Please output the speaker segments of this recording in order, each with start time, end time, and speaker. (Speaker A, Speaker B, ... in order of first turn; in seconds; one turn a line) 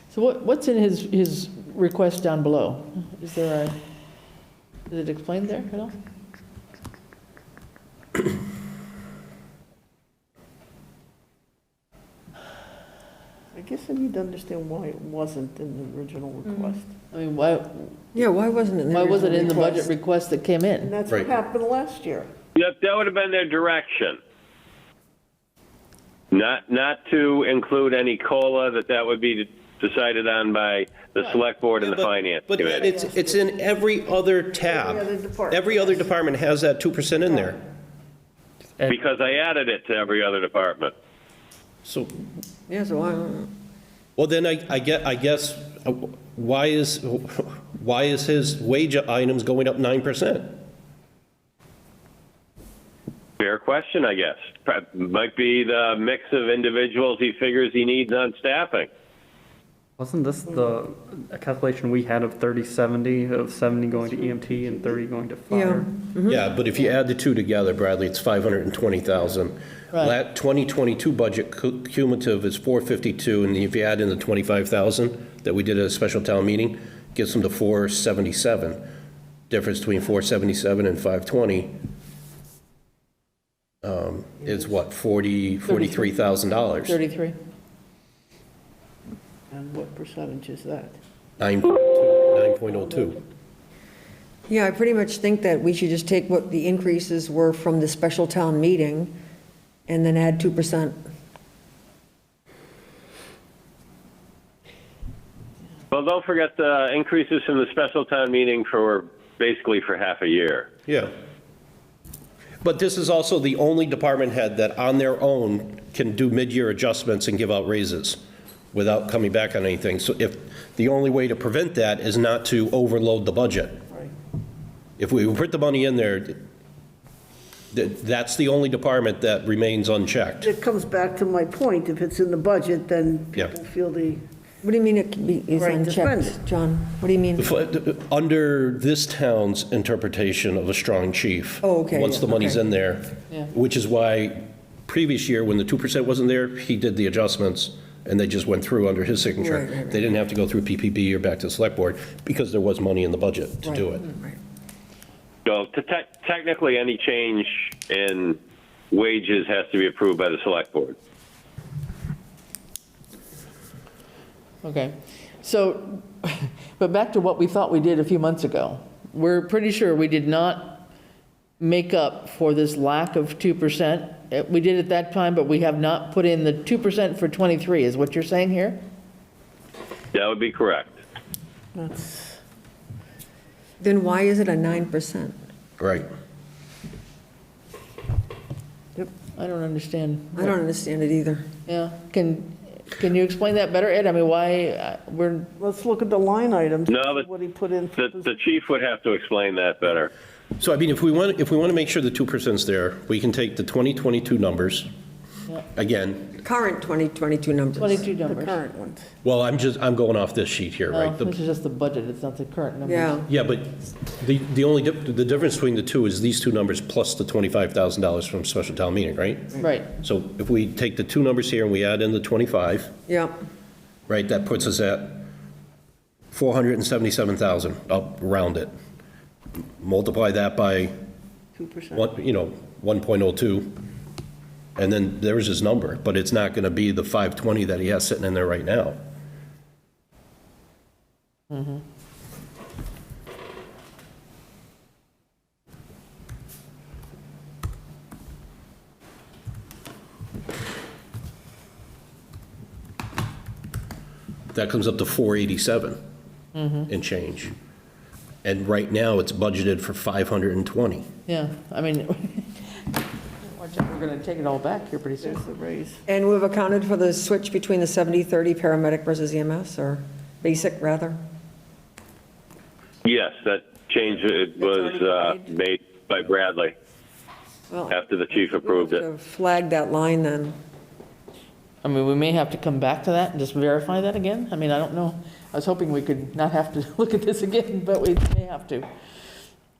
Speaker A: 0.1-3.8
Speaker A: 4.9-5.9
Speaker B: 13.5-16.9
Speaker A: 17.1-17.9
Speaker C: 18.1-19.9
Speaker A: 18.9-20.9
Speaker B: 20.8-22.3
Speaker D: 22.6-24.2
Speaker D: 26.3-32.9
Speaker E: 31.8-37.6
Speaker B: 32.8-33.4
Speaker B: 34.6-36.1
Speaker F: 38.8-39.1
Speaker D: 38.9-40.9
Speaker E: 41.8-42.1
Speaker C: 42.7-43.5
Speaker E: 44.2-50.6
Speaker D: 53.4-58.9
Speaker F: 60.0-66.0
Speaker B: 60.5-60.7
Speaker B: 63.8-65.0
Speaker C: 65.5-66.5
Speaker E: 66.3-78.8
Speaker E: 79.5-81.8
Speaker E: 83.8-87.0
Speaker A: 85.7-86.1
Speaker A: 86.8-87.4
Speaker B: 89.5-91.0
Speaker E: 91.4-93.2
Speaker C: 94.5-99.1
Speaker C: 99.9-101.0
Speaker D: 105.9-110.7
Speaker E: 110.9-111.1
Speaker E: 112.6-118.2
Speaker E: 118.7-123.8
Speaker E: 125.0-126.4
Speaker E: 127.7-130.5
Speaker B: 130.4-134.2
Speaker C: 134.6-137.5
Speaker B: 135.5-136.4
Speaker E: 137.4-154.0
Speaker C: 141.6-142.6
Speaker C: 149.4-150.0
Speaker C: 153.6-154.3
Speaker D: 155.4-158.4
Speaker D: 158.9-160.9
Speaker A: 164.6-170.9
Speaker A: 171.6-178.8
Speaker D: 180.1-180.9
Speaker B: 181.7-182.4
Speaker C: 183.8-185.3
Speaker E: 185.8-186.1
Speaker A: 189.3-190.5
Speaker C: 190.3-191.5
Speaker A: 191.7-195.5
Speaker B: 195.6-198.3
Speaker D: 196.9-197.3
Speaker D: 197.9-200.1
Speaker E: 200.6-204.9
Speaker E: 205.7-206.4
Speaker C: 206.4-208.1
Speaker A: 207.8-208.6
Speaker B: 208.1-209.1
Speaker E: 209.2-211.3
Speaker A: 210.9-213.2
Speaker C: 212.8-213.3
Speaker E: 213.3-222.9
Speaker A: 219.5-219.9
Speaker C: 223.1-223.3
Speaker E: 224.1-225.3
Speaker E: 226.3-228.7
Speaker E: 229.8-230.9
Speaker B: 231.6-232.1
Speaker E: 231.9-233.8
Speaker E: 234.8-239.0
Speaker E: 254.5-256.0
Speaker A: 256.5-256.9
Speaker E: 256.9-257.5
Speaker E: 258.4-261.1
Speaker A: 261.3-262.8
Speaker A: 263.4-265.4
Speaker B: 265.2-266.0
Speaker C: 266.1-271.2
Speaker D: 273.0-276.7
Speaker C: 274.6-275.5
Speaker C: 277.7-280.6
Speaker D: 277.9-279.0
Speaker A: 281.8-288.9